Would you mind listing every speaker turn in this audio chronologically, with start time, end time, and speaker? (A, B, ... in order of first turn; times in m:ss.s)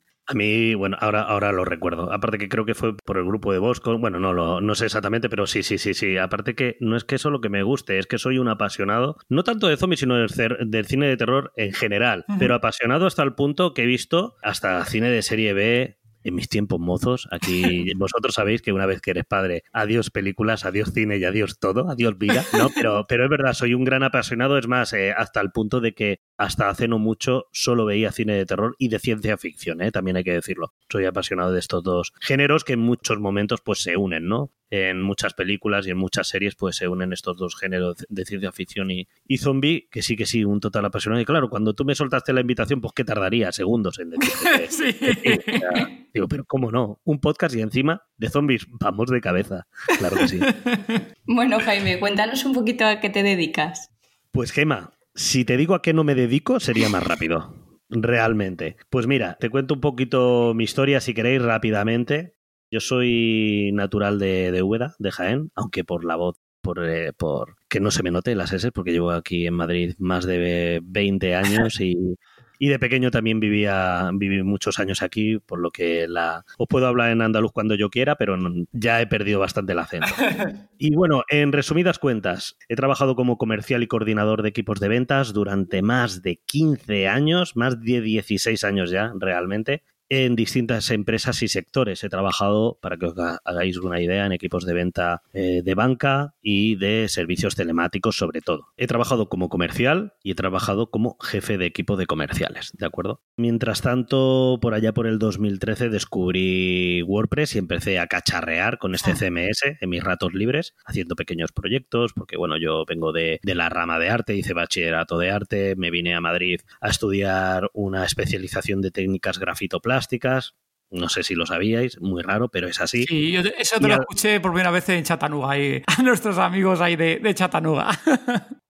0:00.3-0:50.5 A
0:44.2-0:45.9 B
0:50.2-0:51.0 B
0:51.3-0:53.9 C
0:54.3-1:20.3 A
1:20.8-2:03.1 A
2:03.0-2:08.5 B
2:03.8-2:04.1 A